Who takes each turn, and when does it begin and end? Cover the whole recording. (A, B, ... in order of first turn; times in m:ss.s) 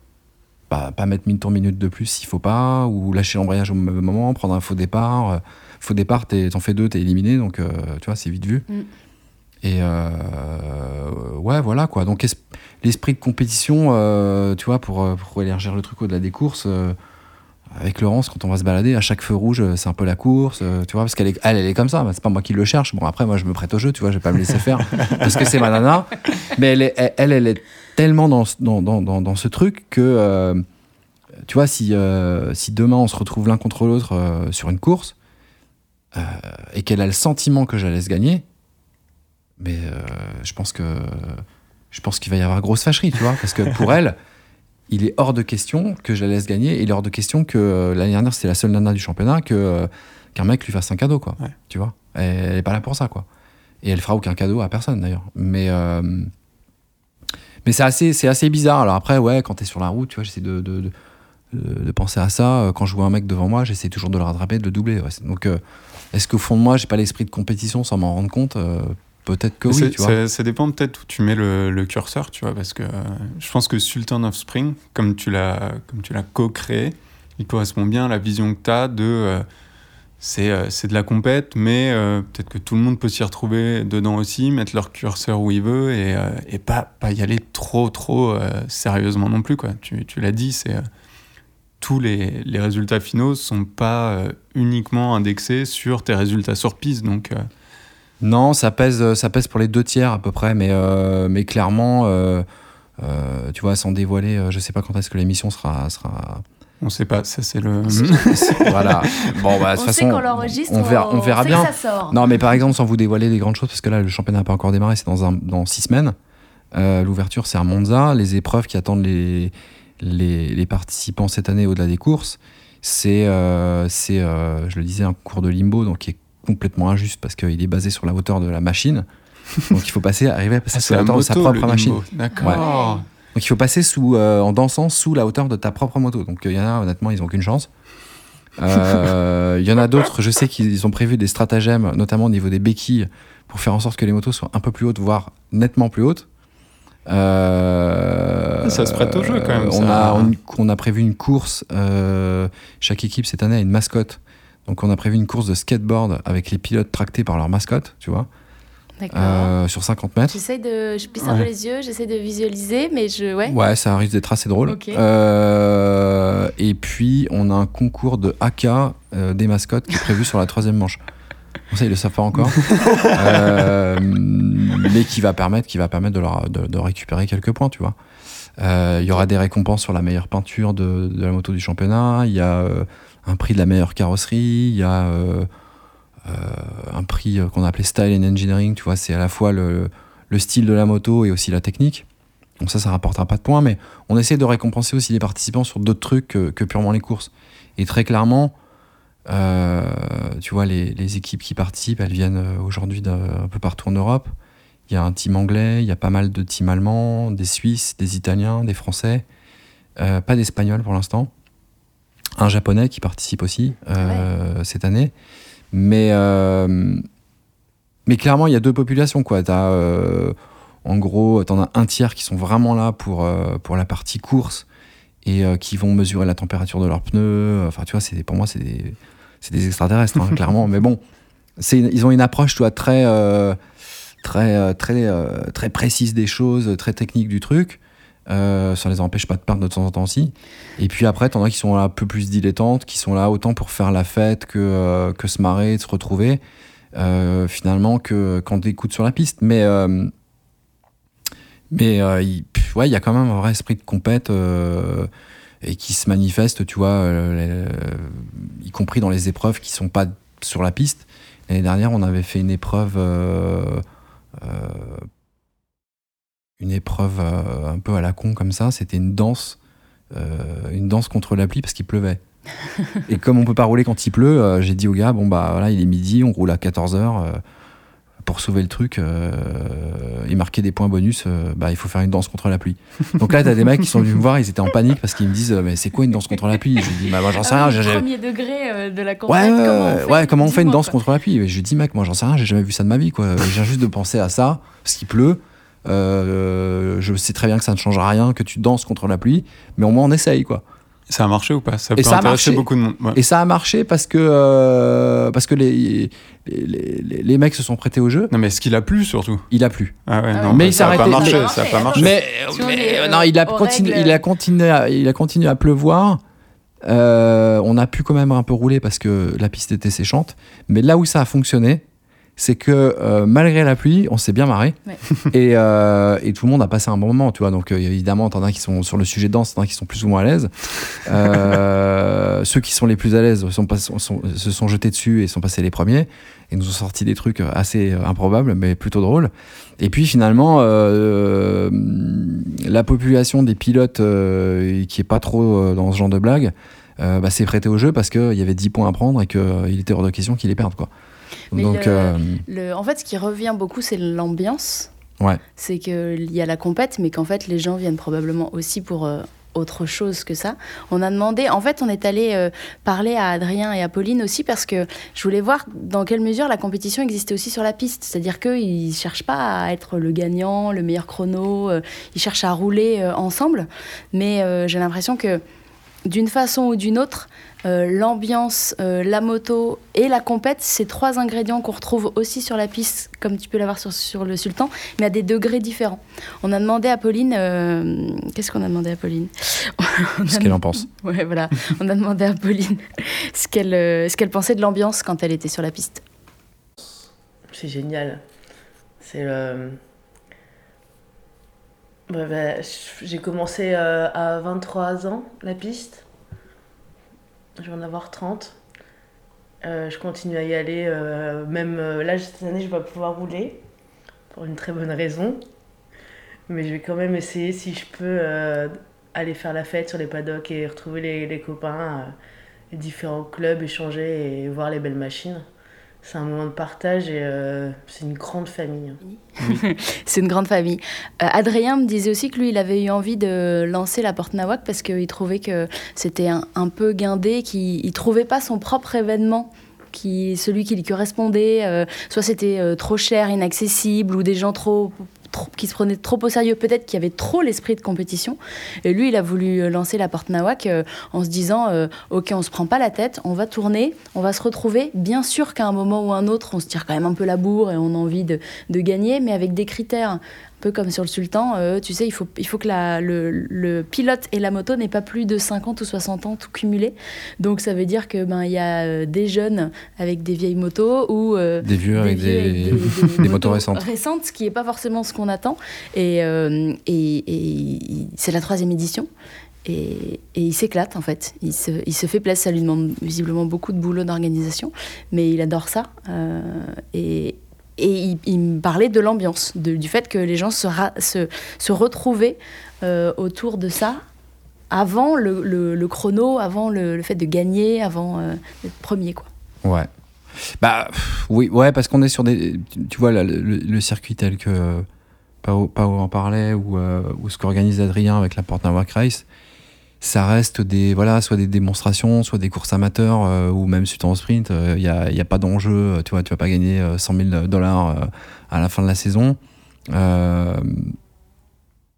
0:00.7-0:08.6 A
0:09.6-0:17.0 A
0:17.7-0:30.6 A
0:31.4-0:35.2 A
0:36.1-0:38.4 A
0:39.6-0:44.2 A
0:44.9-0:53.2 A
0:53.8-0:56.3 A
0:57.6-1:00.9 A
1:01.5-1:05.6 A
1:06.1-1:10.2 A
1:09.7-1:19.4 B
1:20.2-1:30.8 B
1:31.8-1:37.4 B
1:38.2-1:42.4 A
1:43.0-1:46.4 A
1:46.8-1:49.5 B
1:47.9-1:56.1 A
1:49.7-1:52.2 C
1:56.7-2:09.0 A
2:09.7-2:12.6 A
2:10.7-2:13.0 B
2:12.3-2:13.0 C
2:13.3-2:17.7 A
2:18.6-2:26.2 A
2:27.1-2:38.3 A
2:28.6-2:30.3 B
2:39.0-2:39.5 C
2:39.1-2:40.4 A
2:40.3-2:43.6 C
2:41.2-2:41.5 B
2:43.4-2:51.0 A
2:44.6-2:45.0 C
2:51.7-2:57.9 A
2:58.6-3:05.5 A
3:06.2-3:12.0 A
3:12.6-3:18.5 A
3:19.3-3:24.3 A
3:24.9-3:29.2 A
3:30.0-3:31.3 A
3:32.4-3:35.1 A
3:34.0-3:34.3 C
3:35.7-3:37.0 A
3:38.0-3:44.6 A
3:45.2-3:51.0 A
3:51.6-3:53.6 A
3:54.2-4:06.4 A
4:06.9-4:10.1 A
4:11.7-4:15.1 A
4:15.6-4:23.8 A
4:24.4-4:25.1 A
4:26.6-4:29.6 A
4:30.1-4:32.2 A
4:33.1-4:37.4 A
4:38.2-4:48.0 A
4:47.3-4:51.0 C
4:49.3-5:00.6 A
5:01.1-5:03.2 B
5:02.0-5:08.3 A
5:08.3-5:09.5 B
5:09.5-5:09.9 A
5:10.1-5:12.1 B
5:10.3-5:14.2 C
5:10.5-5:16.2 A
5:16.8-5:21.8 A
5:22.4-5:50.9 A
5:51.5-5:54.9 C
5:51.5-5:52.4 A
5:55.6-6:15.4 C
6:16.0-6:36.0 C
6:30.3-6:30.9 A
6:37.5-6:38.2 D
6:39.0-6:39.8 D
6:42.1-6:46.0 D
6:47.6-6:48.6 D
6:49.6-6:53.6 D
6:54.3-6:55.4 D
6:56.5-7:02.1 D
7:02.7-7:05.4 D
7:06.0-7:09.0 D
7:09.4-7:59.1 C
7:51.6-7:53.8 A
7:59.6-8:14.0 C
8:14.7-8:19.3 C
8:19.6-8:19.9 A
8:20.4-8:24.8 A
8:25.4-8:29.2 A
8:30.0-8:39.4 A
8:39.9-8:41.0 A